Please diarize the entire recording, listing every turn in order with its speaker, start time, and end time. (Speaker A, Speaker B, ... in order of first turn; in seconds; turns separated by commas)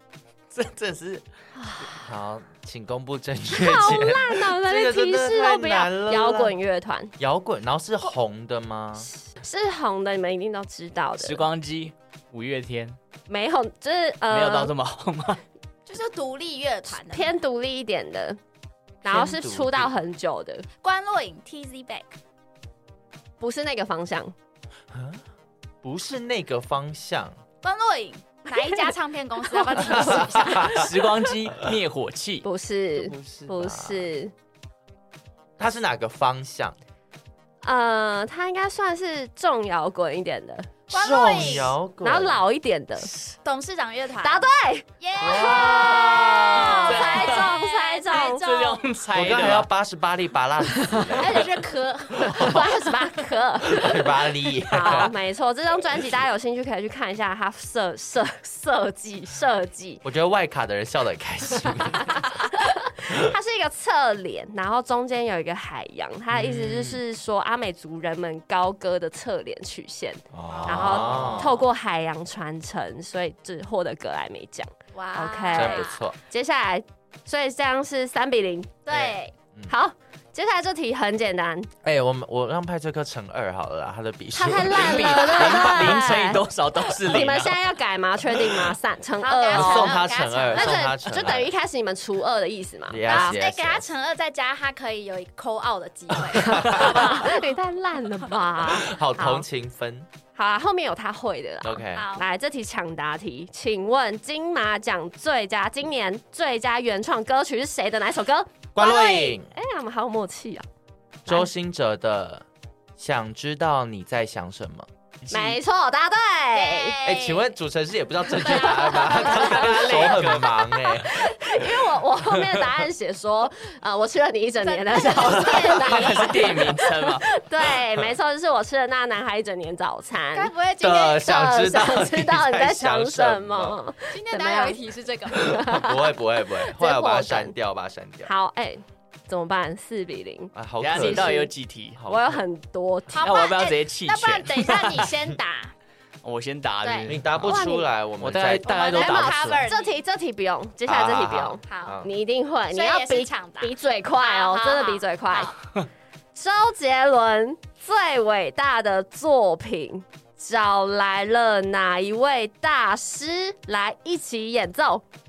Speaker A: 0.5-1.2, Speaker B: 1.6-2.0, Speaker C: 1.9-6.5, Speaker B: 3.5-7.1, Speaker C: 7.2-9.1, Speaker B: 9.3-11.4, Speaker A: 11.2-13.0, Speaker B: 13.3-14.7, Speaker A: 14.3-15.4, Speaker D: 15.9-17.4, Speaker B: 16.9-18.4, Speaker C: 19.0-19.9, Speaker B: 19.0-20.6, Speaker D: 20.8-22.2, Speaker B: 23.4-24.3, Speaker C: 24.9-25.2, Speaker C: 25.8-27.4, Speaker D: 27.6-30.8, Speaker B: 28.5-28.9, Speaker B: 29.5-30.6, Speaker C: 29.9-30.9, Speaker A: 30.6-32.5, Speaker B: 32.4-34.3, Speaker C: 33.0-34.1, Speaker C: 35.6-36.8, Speaker B: 37.6-40.7, Speaker D: 40.9-41.8, Speaker C: 40.9-42.4, Speaker B: 42.0-43.1, Speaker D: 43.4-44.5, Speaker B: 44.2-48.5, Speaker D: 45.0-48.8, Speaker C: 45.2-46.7, Speaker A: 46.2-47.5, Speaker A: 48.2-49.7, Speaker C: 49.1-51.5, Speaker D: 51.1-52.7, Speaker C: 52.2-52.7, Speaker B: 52.2-60.0, Speaker C: 53.6-55.1, Speaker C: 60.0-62.4, Speaker B: 61.8-78.7, Speaker C: 66.3-67.0, Speaker C: 70.3-71.6, Speaker D: 70.5-71.6, Speaker D: 74.9-76.0, Speaker C: 75.5-76.2, Speaker D: 78.9-79.3, Speaker C: 78.9-79.7, Speaker B: 79.7-81.7, Speaker C: 81.8-86.1, Speaker B: 84.3-86.4, Speaker A: 84.7-87.6, Speaker B: 87.1-93.4, Speaker D: 89.2-90.9, Speaker C: 89.5-91.5, Speaker C: 92.9-93.9, Speaker D: 93.1-97.5, Speaker C: 96.4-97.0, Speaker B: 96.4-99.5, Speaker C: 98.6-100.1, Speaker B: 100.3-110.7, Speaker C: 101.6-102.1, Speaker D: 101.9-102.3, Speaker C: 108.8-109.5, Speaker C: 111.3-112.5, Speaker C: 113.0-115.5, Speaker B: 115.3-117.0, Speaker D: 116.5-117.5, Speaker C: 117.0-122.7, Speaker B: 118.4-119.7, Speaker D: 118.4-119.5, Speaker A: 119.1-120.5, Speaker B: 120.5-130.5, Speaker D: 124.6-126.4, Speaker A: 125.7-127.3, Speaker D: 130.3-131.3, Speaker C: 130.8-133.8, Speaker B: 131.2-134.8, Speaker D: 134.1-135.6, Speaker B: 135.3-137.6, Speaker C: 135.4-138.3, Speaker B: 138.2-141.5, Speaker C: 140.5-141.4, Speaker A: 140.8-142.0, Speaker C: 141.9-142.4, Speaker B: 142.1-143.3, Speaker D: 143.1-145.7, Speaker A: 143.2-145.1, Speaker A: 146.2-147.6, Speaker D: 146.8-147.1, Speaker C: 147.1-148.9, Speaker B: 147.4-147.9, Speaker A: 148.2-149.6, Speaker D: 148.6-150.0, Speaker B: 148.9-155.5, Speaker C: 150.9-152.1, Speaker D: 151.7-152.0, Speaker D: 152.7-155.5, Speaker B: 156.3-165.0